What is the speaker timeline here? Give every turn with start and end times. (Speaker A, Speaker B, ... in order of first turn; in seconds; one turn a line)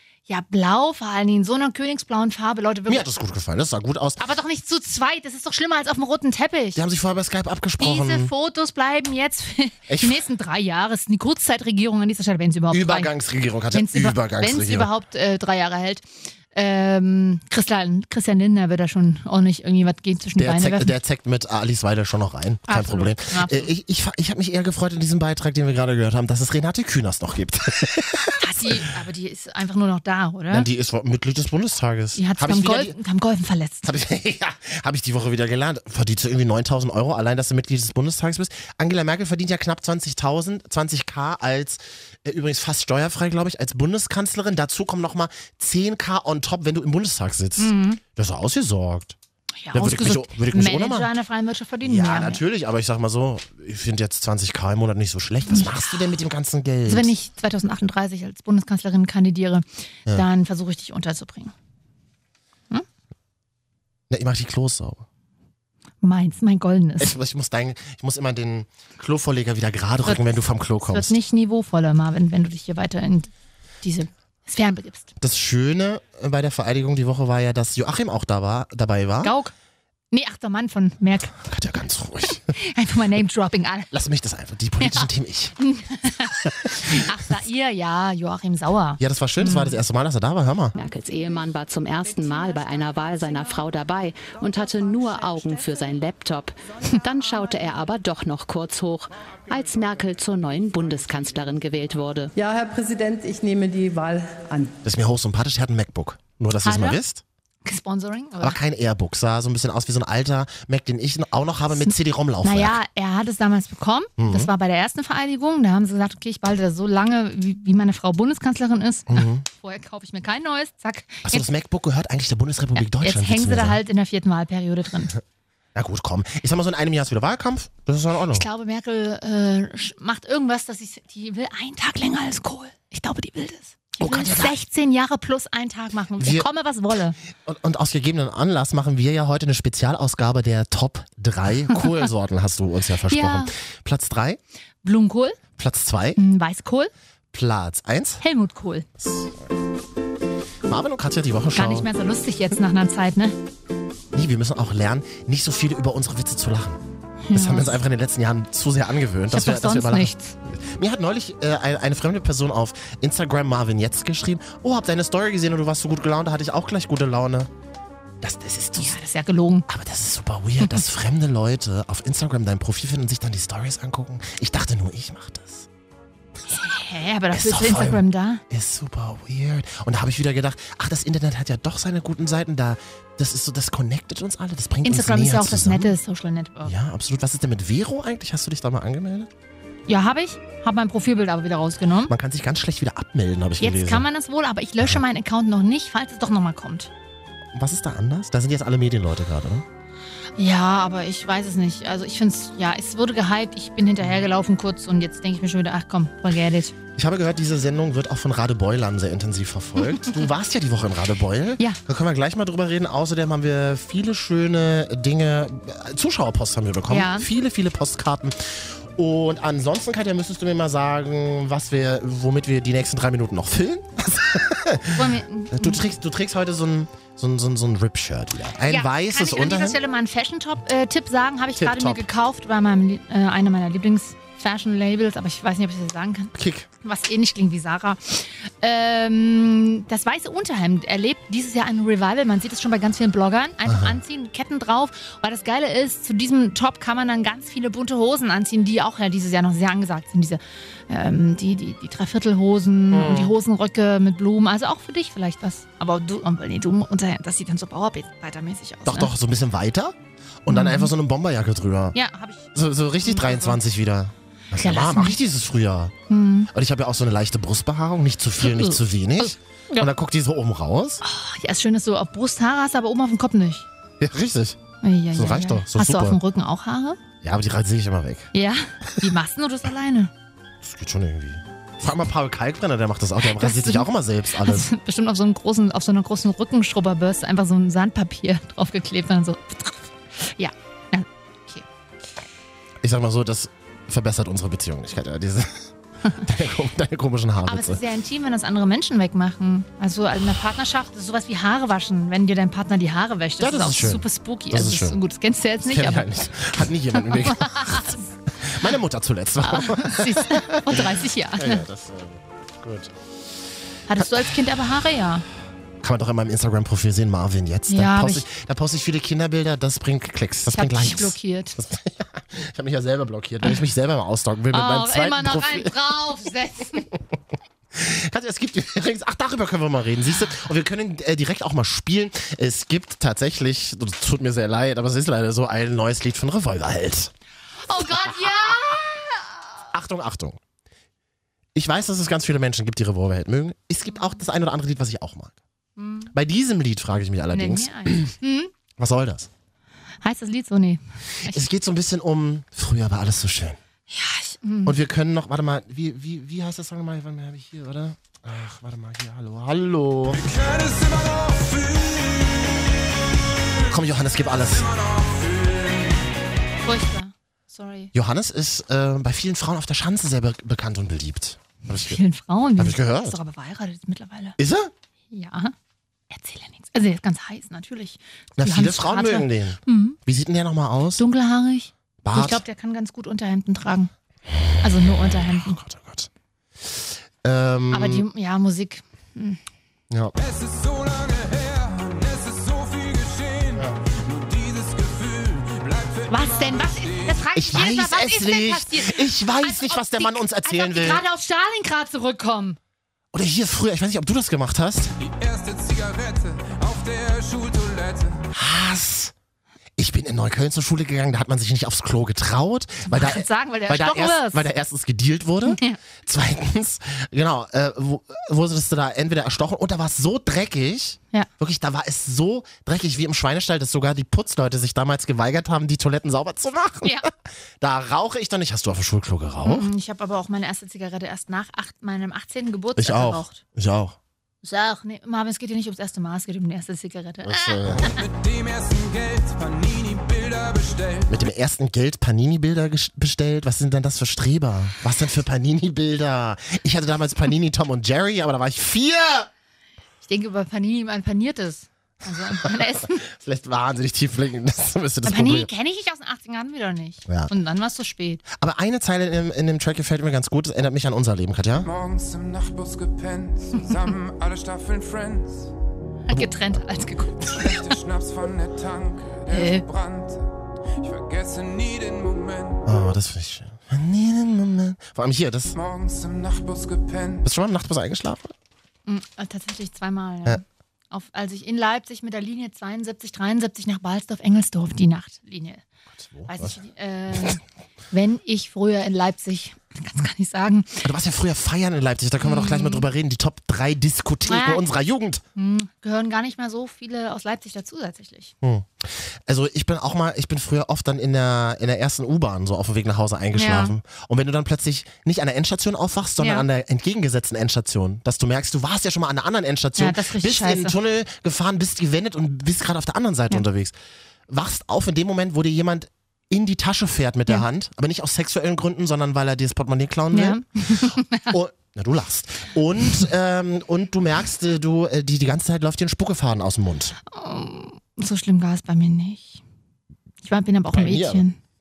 Speaker A: 0.3-3.1
Speaker B: 2.9-4.2
Speaker A: 4.2-6.8
Speaker B: 6.7-8.3
Speaker A: 7.8-13.1
Speaker B: 9.9-10.2
Speaker B: 12.7-14.9
Speaker A: 13.7-20.9
Speaker B: 20.4-28.8
Speaker A: 22.7-23.7
Speaker A: 28.4-30.7
Speaker B: 30.5-33.0
Speaker A: 32.1-33.9
Speaker B: 33.8-49.1
Speaker A: 47.6-48.0
Speaker A: 49.6-52.4
Speaker B: 49.7-51.1
Speaker B: 51.8-57.1
Speaker A: 55.5-56.0
Speaker A: 56.9-61.5
Speaker B: 64.1-65.0
Speaker A: 66.0-67.1
Speaker B: 67.0-71.1
Speaker A: 70.0-73.3
Speaker A: 73.8-75.1
Speaker B: 75.2-79.3
Speaker A: 79.2-79.5
Speaker A: 80.1-81.4
Speaker B: 81.4-82.5
Speaker A: 82.5-83.9
Speaker B: 83.9-85.5
Speaker A: 84.8-89.8
Speaker B: 86.6-87.0
Speaker B: 89.0-90.7
Speaker C: 90.8-102.3
Speaker D: 102.4-104.7
Speaker B: 104.8-107.2
Speaker A: 106.6-107.0
Speaker A: 107.6-108.6
Speaker B: 108.4-112.8
Speaker A: 111.8-121.5
Speaker B: 114.2-114.5
Speaker B: 119.1-119.4
Speaker B: 121.2-123.8
Speaker A: 122.8-125.2
Speaker B: 125.7-128.4
Speaker A: 128.3-137.2
Speaker B: 134.0-134.5
Speaker B: 136.2-136.4
Speaker B: 137.4-144.4
Speaker A: 143.1-143.5
Speaker A: 144.8-145.4
Speaker B: 145.6-146.2
Speaker A: 146.2-146.9
Speaker B: 147.3-148.2
Speaker A: 148.2-148.8
Speaker B: 149.0-149.3
Speaker B: 150.7-151.9
Speaker A: 151.5-153.3
Speaker B: 154.1-156.8
Speaker A: 157.3-157.8
Speaker B: 157.3-167.5
Speaker A: 159.3-160.3
Speaker B: 168.2-168.9
Speaker A: 168.8-169.7
Speaker B: 169.7-175.7
Speaker A: 176.5-178.4
Speaker B: 177.3-185.9
Speaker A: 184.8-186.7
Speaker B: 186.6-189.3
Speaker A: 189.9-192.1
Speaker B: 192.1-194.1
Speaker A: 193.6-196.9
Speaker B: 197.5-199.6
Speaker A: 200.4-206.7
Speaker B: 206.9-229.8
Speaker A: 209.9-210.2
Speaker A: 216.9-217.3
Speaker A: 224.9-225.8
Speaker A: 228.7-259.1
Speaker B: 231.6-232.0
Speaker B: 236.3-236.7
Speaker B: 243.6-244.0
Speaker B: 252.9-253.3
Speaker B: 258.9-262.0
Speaker A: 260.5-260.9
Speaker A: 261.9-263.6
Speaker B: 262.5-265.9
Speaker A: 264.6-265.2
Speaker A: 266.1-266.5
Speaker B: 266.5-271.0
Speaker A: 268.4-269.9
Speaker A: 271.0-273.6
Speaker B: 274.0-274.6
Speaker A: 274.8-277.0
Speaker B: 275.1-276.2
Speaker B: 277.2-278.3
Speaker A: 278.3-280.1
Speaker B: 280.6-284.7
Speaker A: 283.2-291.6
Speaker B: 292.8-297.8
Speaker A: 297.4-308.0
Speaker B: 303.4-305.0
Speaker B: 305.6-310.9
Speaker A: 309.4-311.6
Speaker B: 311.4-312.9
Speaker A: 313.9-315.2
Speaker B: 315.8-325.7
Speaker A: 317.7-318.2
Speaker A: 320.5-321.6
Speaker A: 324.5-326.9
Speaker B: 327.7-337.1
Speaker A: 337.6-339.3
Speaker B: 339.7-340.4
Speaker B: 341.5-345.3
Speaker A: 345.8-346.1
Speaker B: 346.1-348.1
Speaker A: 347.3-348.5
Speaker B: 348.8-349.3
Speaker A: 350.0-351.4
Speaker B: 351.2-353.6
Speaker A: 353.9-354.8
Speaker B: 354.6-360.2
Speaker E: 360.2-362.4
Speaker B: 363.7-364.7
Speaker E: 364.9-365.8
Speaker A: 366.6-367.9
Speaker B: 367.9-372.0
Speaker A: 371.8-374.4
Speaker B: 372.6-373.2
Speaker B: 374.4-374.7
Speaker A: 375.1-375.5
Speaker A: 376.1-380.0
Speaker B: 378.4-381.0
Speaker A: 381.0-383.9
Speaker B: 382.0-382.4
Speaker B: 384.3-386.1
Speaker A: 384.6-385.6
Speaker B: 386.6-388.0
Speaker A: 387.7-389.4
Speaker E: 390.2-397.2
Speaker A: 396.1-402.6
Speaker B: 397.4-401.0
Speaker B: 403.1-404.9
Speaker E: 405.0-408.2
Speaker B: 408.3-409.1
Speaker B: 409.8-427.1
Speaker A: 412.9-414.5
Speaker A: 415.4-415.8
Speaker B: 427.6-429.7
Speaker A: 429.4-433.4
Speaker B: 432.8-434.0
Speaker A: 434.4-437.9
Speaker B: 437.2-437.9
Speaker E: 437.9-441.1
Speaker B: 441.1-449.3
Speaker A: 450.0-453.0
Speaker B: 453.1-455.5
Speaker A: 455.0-458.2
Speaker B: 458.4-461.7
Speaker E: 461.6-465.5
Speaker A: 466.1-467.6
Speaker E: 467.4-470.3
Speaker A: 469.3-469.6
Speaker E: 470.8-472.6
Speaker B: 472.6-475.6
Speaker E: 475.5-477.2
Speaker B: 477.2-478.3
Speaker A: 478.9-485.6
Speaker B: 485.9-486.6
Speaker A: 486.3-490.9
Speaker B: 490.8-495.2
Speaker A: 492.2-492.9
Speaker A: 494.3-494.6
Speaker A: 495.4-498.3
Speaker B: 498.4-513.7
Speaker A: 503.4-503.7
Speaker A: 506.2-506.4
Speaker A: 509.8-510.8
Speaker B: 514.3-527.0
Speaker A: 520.1-521.3
Speaker A: 527.1-529.4
Speaker A: 530.2-531.4
Speaker B: 530.7-531.2